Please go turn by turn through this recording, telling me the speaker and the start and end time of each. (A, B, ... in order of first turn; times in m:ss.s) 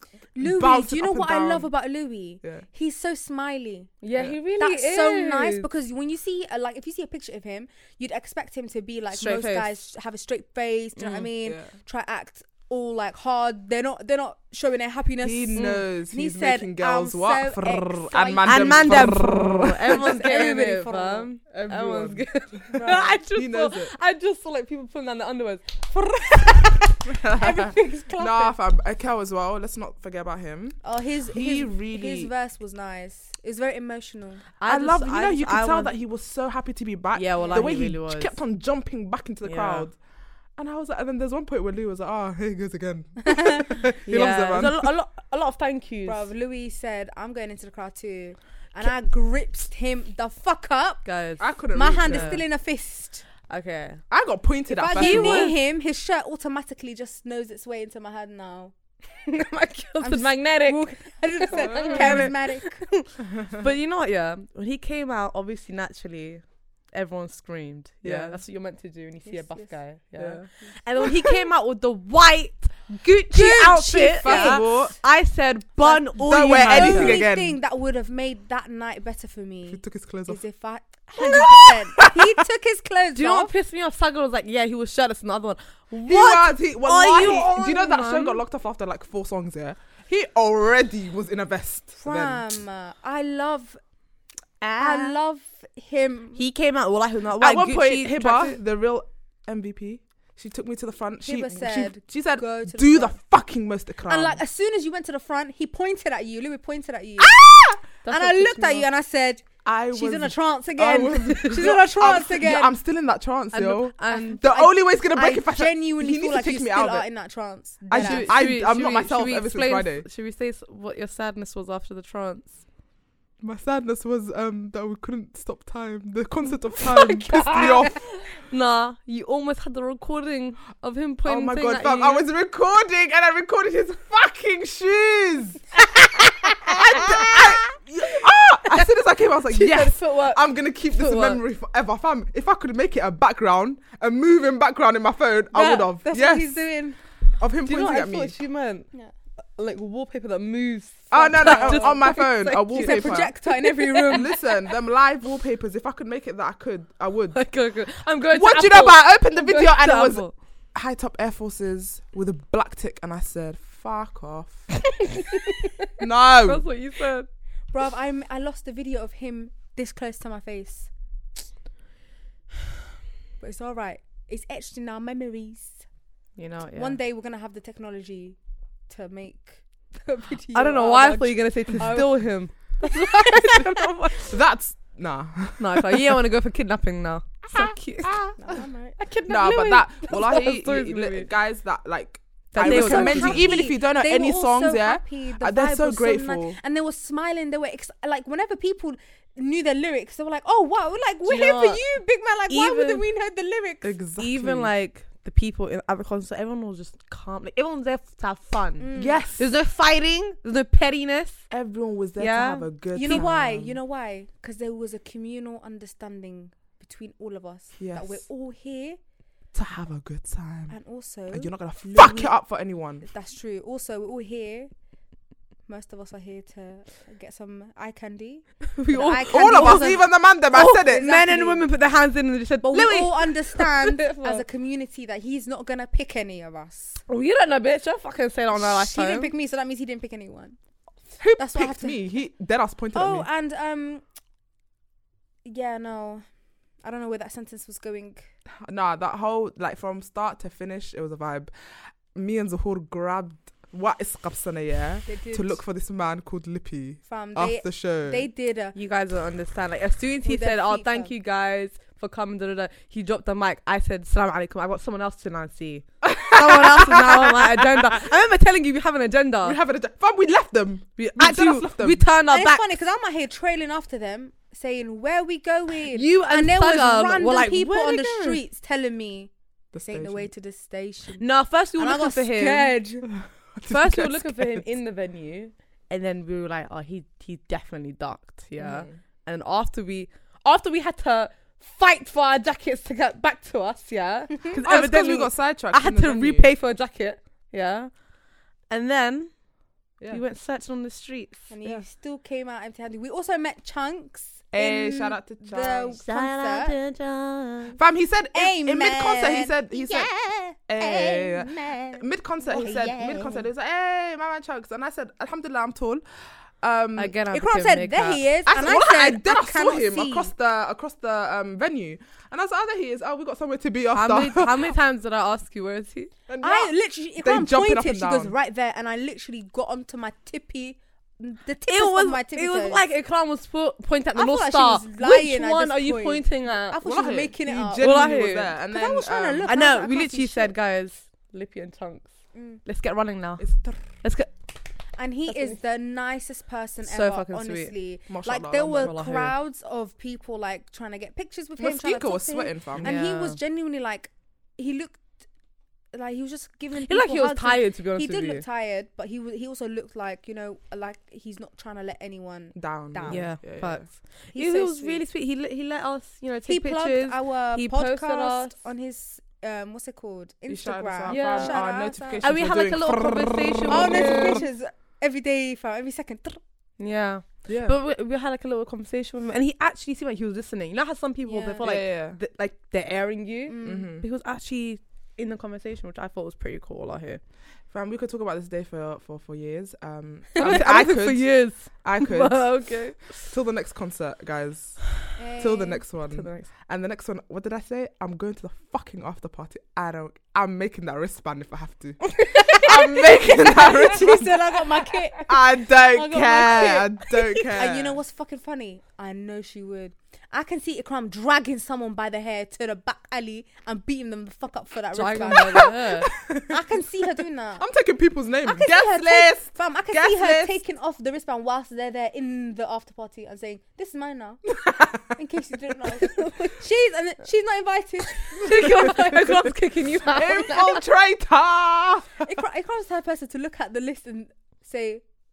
0:00.3-0:03.9 A
0:00.4-0:01.7 B
0:04.0-0:05.7 C
0:04.6-0:19.2 A
0:09.1-0:09.8 C
0:11.0-0:11.3 C
0:11.4-0:11.7 B
0:15.2-0:20.3 B
0:18.4-0:26.9 C
0:19.8-0:21.3 A
0:21.5-0:23.9 B
0:22.7-0:23.2 A
0:26.6-0:28.6 A
0:27.1-0:32.3 B
0:30.8-0:34.4 A
0:34.6-0:35.9 C
0:34.6-0:40.0 B
0:37.1-0:38.3 C
0:37.4-0:37.7 A
0:39.4-0:39.9 C
0:40.6-0:44.9 B
0:43.3-0:43.6 A
0:44.0-0:46.3 C
0:46.0-0:51.0 A
0:51.0-0:52.4 C
0:51.4-0:52.4 B
0:51.7-0:53.2 A
0:53.5-0:54.0 C
0:54.1-0:55.5 B
0:54.7-0:58.7 A
0:54.9-0:55.6 C
0:59.2-1:17.2 C
1:00.0-1:02.9 A
1:01.5-1:02.3 B
1:03.3-1:03.6 B
1:08.0-1:08.4 B
1:09.2-1:09.8 A
1:10.2-1:10.5 B
1:13.3-1:14.9 A
1:14.1-1:15.0 B
1:15.8-1:23.5 A
1:16.2-1:17.6 B
1:19.7-1:20.4 B
1:21.2-1:22.4 B
1:23.1-1:28.4 C
1:26.0-1:32.4 B
1:31.9-1:33.8 A
1:34.6-1:35.2 C
1:34.8-1:36.4 A
1:36.3-1:38.6 C
1:37.4-1:44.4 B
1:41.2-1:43.2 A
1:44.1-1:47.4 A
1:47.2-1:47.8 B
1:48.0-1:48.8 C
1:48.1-1:52.7 A
1:49.6-1:57.1 B
1:53.5-1:54.4 C
1:54.1-1:58.4 A
1:57.9-2:00.0 B
1:57.9-2:02.6 C
2:03.4-2:08.0 B
2:07.1-2:12.2 C
2:11.2-2:15.6 B
2:16.2-2:17.4 A
2:16.4-2:26.6 B
2:19.5-2:21.4 C
2:25.5-2:27.0 A
2:27.4-2:28.4 B
2:27.6-2:34.3 C
2:31.1-2:33.3 B
2:31.1-2:34.3 A
2:34.0-2:37.4 B
2:37.3-2:40.3 C
2:38.3-2:44.7 B
2:44.9-2:47.3 C
2:46.0-2:46.6 B
2:47.7-2:50.9 A
2:53.4-2:55.8 A
2:56.4-2:57.0 C
2:56.8-2:58.4 A
2:58.9-3:02.2 A
3:00.5-3:04.4 C
3:02.8-3:03.9 A
3:04.2-3:06.2 B
3:05.6-3:08.4 C
3:07.5-3:08.6 B
3:08.4-3:09.0 A
3:09.0-3:11.3 C
3:09.3-3:16.6 B
3:12.5-3:13.7 C
3:12.6-3:24.0 A
3:21.2-3:21.8 C
3:22.5-3:23.0 C
3:23.8-3:24.7 B
3:24.2-3:31.5 C
3:28.8-3:29.2 A
3:28.9-3:29.5 B
3:31.5-3:33.8 B
3:32.2-3:33.3 C
3:32.9-3:39.0 A
3:37.8-3:38.2 B
3:39.5-3:40.7 B
3:40.7-3:42.3 A
3:41.3-3:43.0 B
3:43.0-3:44.7 A
3:45.7-3:50.0 A
3:48.8-3:54.4 C
3:49.3-3:51.1 B
3:50.8-3:51.7 A
3:52.6-3:57.0 A
3:57.1-3:59.3 C
3:58.5-4:00.6 A
4:01.2-4:03.3 B
4:01.4-4:02.0 A
4:02.9-4:04.0 A
4:05.4-4:06.2 A
4:06.8-4:08.2 A
4:08.6-4:18.2 B
4:15.1-4:15.6 A
4:17.0-4:18.8 A
4:18.7-4:29.6 C
4:20.2-4:21.1 A
4:26.0-4:28.1 B
4:29.4-4:32.0 B
4:31.0-4:32.7 C
4:32.3-4:41.2 A
4:35.9-4:38.4 C
4:39.7-4:40.3 B
4:41.2-4:42.8 C
4:41.8-4:43.1 A
4:43.0-4:44.7 B
4:43.7-4:57.9 C
4:48.6-4:48.9 B
4:54.6-4:56.5 B
4:58.7-4:59.3 C
5:00.1-5:01.5 C
5:01.5-5:06.7 A
5:04.5-5:06.0 B
5:05.9-5:07.8 C
5:07.8-5:10.1 B
5:08.3-5:13.4 A
5:10.7-5:16.0 B
5:16.6-5:17.2 B
5:17.0-5:18.3 C
5:17.3-5:20.3 A
5:18.4-5:24.7 B
5:23.9-5:26.1 C
5:26.3-5:28.3 B
5:26.4-5:32.8 A
5:31.7-5:36.8 C
5:34.1-5:37.9 A
5:36.8-5:39.6 B
5:37.8-5:38.5 C
5:38.7-5:40.5 A
5:39.4-5:42.1 C
5:42.3-5:42.6 A
5:42.6-5:44.3 C
5:43.4-5:43.8 B
5:45.0-5:55.0 A
5:45.3-5:45.6 C
5:46.8-5:47.7 C
5:48.1-5:49.0 B
5:48.8-5:49.4 C
5:51.6-5:52.9 B
5:52.8-5:53.4 C
5:55.9-6:03.2 A
5:56.8-5:58.4 C
6:02.5-6:03.8 B
6:03.1-6:08.6 C
6:04.3-6:05.0 A
6:06.5-6:12.2 A
6:10.5-6:14.4 B
6:11.1-6:11.6 C
6:12.2-6:14.4 C
6:13.7-6:16.4 A
6:16.8-6:27.2 C
6:17.5-6:17.8 B
6:21.2-6:21.7 A
6:21.6-6:22.2 B
6:23.5-6:23.9 A
6:23.6-6:24.0 B
6:27.7-6:34.8 B
6:30.4-6:33.2 C
6:35.2-6:35.8 A
6:35.4-6:44.4 B
6:36.1-6:36.5 C
6:42.2-6:42.7 C
6:42.3-6:55.7 A
6:45.3-6:48.0 B
6:54.9-6:56.1 C
6:55.3-6:56.6 B
6:56.5-6:57.6 A
6:57.6-7:00.6 B
6:58.4-7:09.5 A
7:04.6-7:05.0 B
7:08.3-7:10.8 C
7:08.5-7:09.0 B
7:10.0-7:12.4 B
7:12.2-7:15.0 A